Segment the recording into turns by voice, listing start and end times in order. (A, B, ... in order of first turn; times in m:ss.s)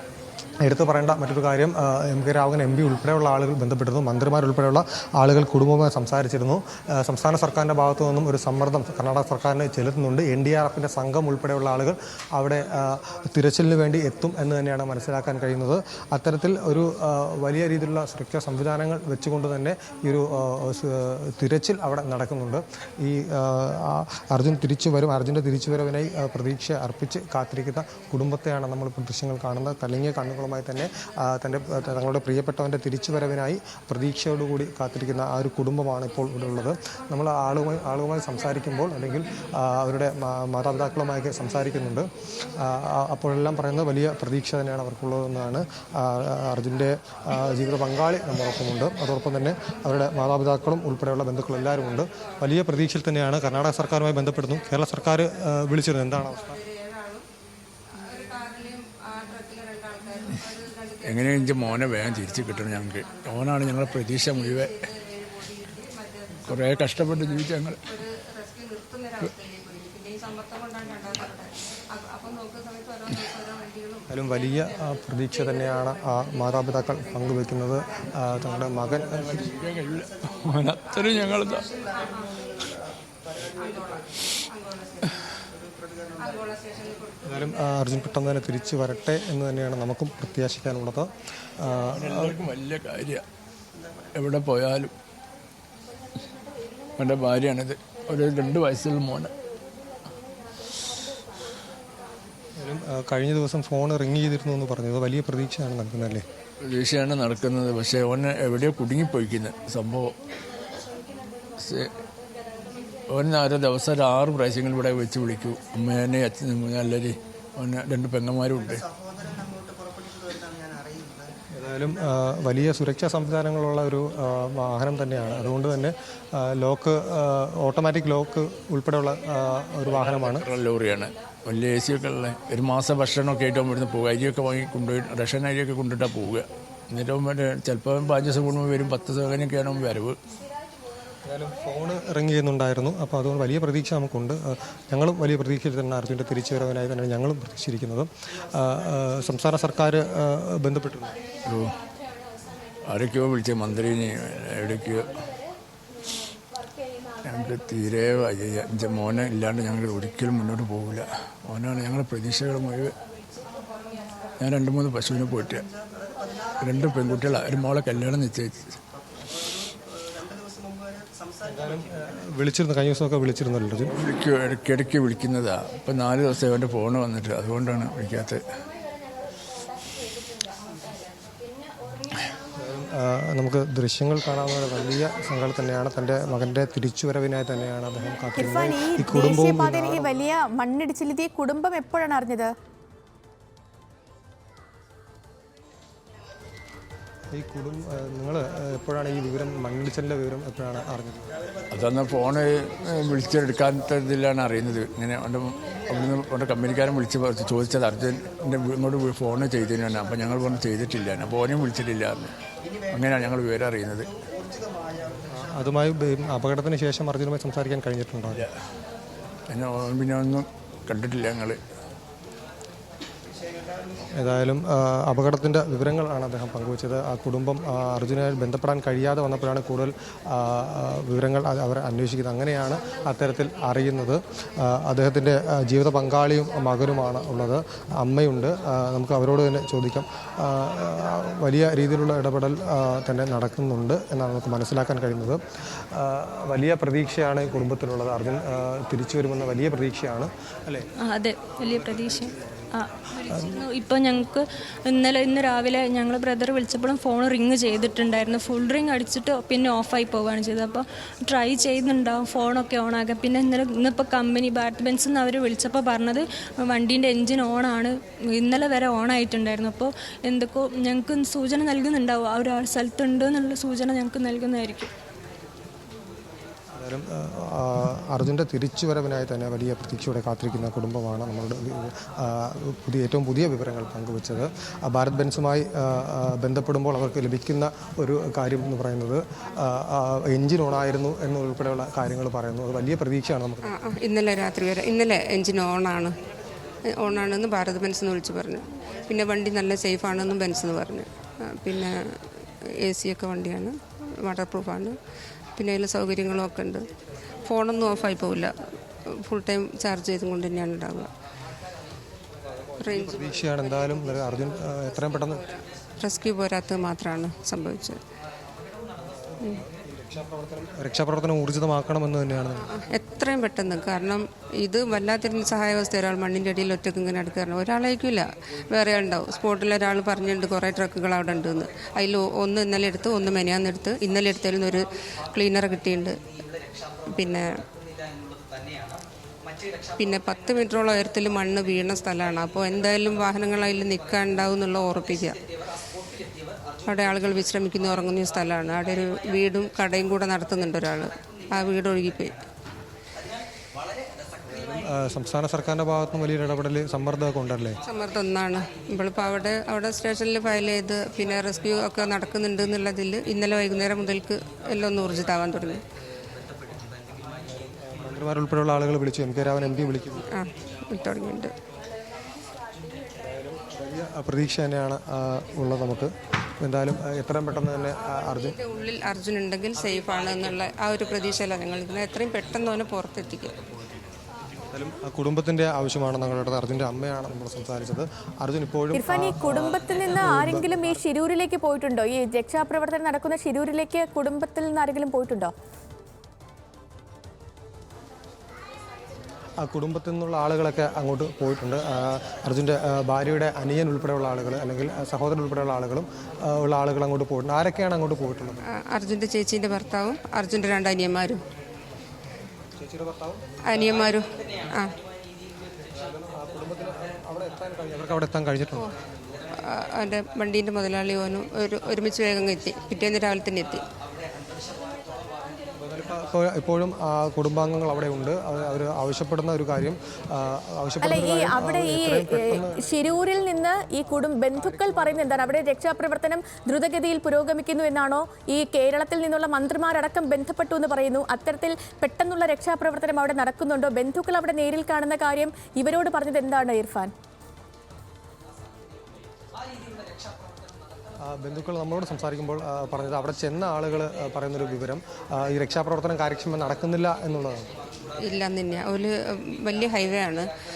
0:00.6-0:56.6 A
0:56.2-0:57.3 B
0:57.9-1:01.5 B
1:01.0-1:04.9 C
1:03.0-1:03.5 B
1:04.3-1:06.8 B
1:06.5-1:07.8 C
1:07.9-1:14.1 B
1:14.1-1:19.4 A
1:19.1-1:21.6 C
1:21.6-1:22.5 B
1:23.6-1:25.1 B
1:26.2-1:27.4 B
1:27.2-1:32.4 A
1:31.9-1:33.2 C
1:34.2-1:34.9 C
1:37.0-1:39.3 C
1:42.6-1:46.3 A
1:46.6-1:50.2 C
1:51.6-1:51.9 C
1:53.1-1:58.8 C
2:01.6-2:10.4 A
2:09.8-2:20.2 C
2:21.2-2:31.2 A
2:31.4-2:31.7 C
2:32.8-2:35.3 C
2:37.2-2:43.0 C
2:44.4-2:45.7 C
2:46.6-2:48.8 C
2:51.4-2:53.9 A
2:53.9-2:58.4 C
3:02.6-3:10.1 A
3:08.4-3:12.5 D
3:17.3-3:21.3 A
3:21.7-3:32.3 C
3:32.9-3:34.1 C
3:35.3-3:38.5 A
3:39.5-3:41.6 C
3:44.2-4:10.9 A
4:11.0-4:34.9 E
4:36.8-4:53.8 A
4:53.6-4:56.2 B
4:56.9-5:05.0 B
5:05.6-5:06.9 B
5:07.4-5:11.1 B
5:12.4-5:15.4 A
5:12.8-5:14.0 B
5:15.3-5:18.0 B
5:19.0-5:22.8 A
5:22.7-5:36.2 B
5:37.1-5:37.5 B
5:40.0-5:45.4 B
5:46.9-5:52.3 B
5:54.4-5:57.8 A
5:57.9-6:05.8 B
6:07.4-6:10.3 A
6:10.3-6:11.5 B
6:13.2-6:18.6 A
6:18.3-6:23.6 B
6:24.7-6:31.0 A
6:28.9-6:35.5 D
6:39.6-6:48.7 A
6:48.7-6:51.4 B
6:52.8-6:54.8 A
6:53.6-6:54.9 B
6:55.9-6:58.9 A
6:59.6-7:03.8 B
7:05.8-7:12.9 A
7:11.0-7:27.1 D
7:14.6-7:15.4 A
7:31.2-7:37.7 A
7:38.2-7:40.5 B